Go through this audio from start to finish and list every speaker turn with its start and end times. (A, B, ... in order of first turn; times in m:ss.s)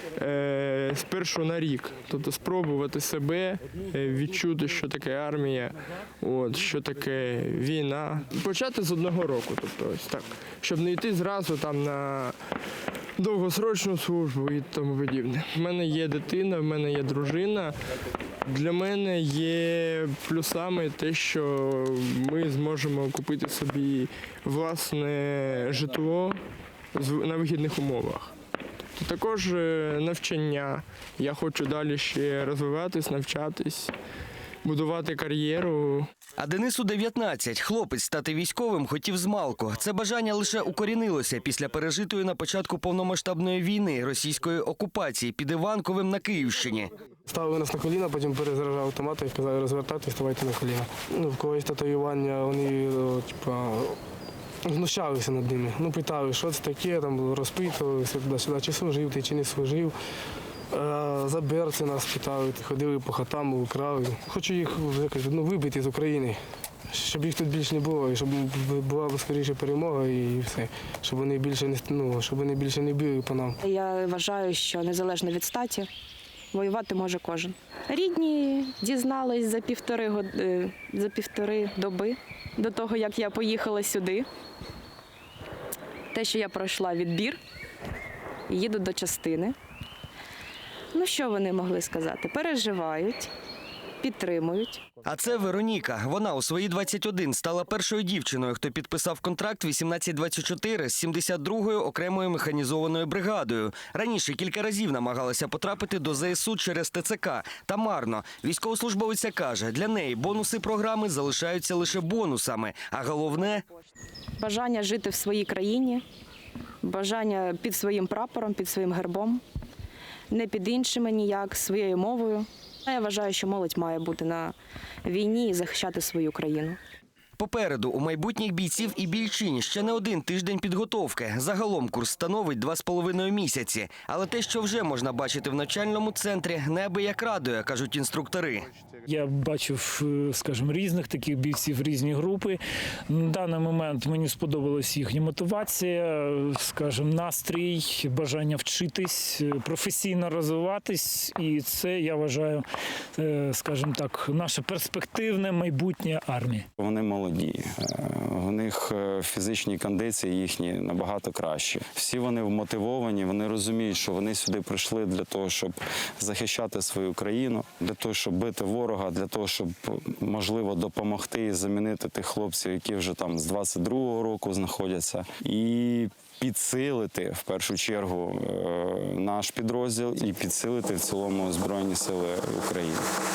0:00.2-0:12.4 A
0:13.2-0:17.8 A
0:18.5-0:26.4 A
0:26.9-0:28.3 A
0:29.0-0:33.9 A
0:34.6-0:36.1 A
0:36.4-0:46.9 B
0:47.3-0:54.0 C
0:54.7-0:59.9 C
1:00.7-1:06.4 C
1:06.9-1:13.6 C
1:13.6-1:15.9 D
1:16.5-1:24.3 D
1:26.1-1:27.4 D
1:28.5-1:29.6 D
1:30.9-1:33.3 D
1:34.0-1:34.8 D
1:35.0-1:53.6 B
1:54.4-1:56.0 D
1:56.8-1:59.4 D
2:00.3-2:06.8 D
2:07.4-2:18.7 B
2:19.1-2:36.7 E
2:36.8-3:03.0 F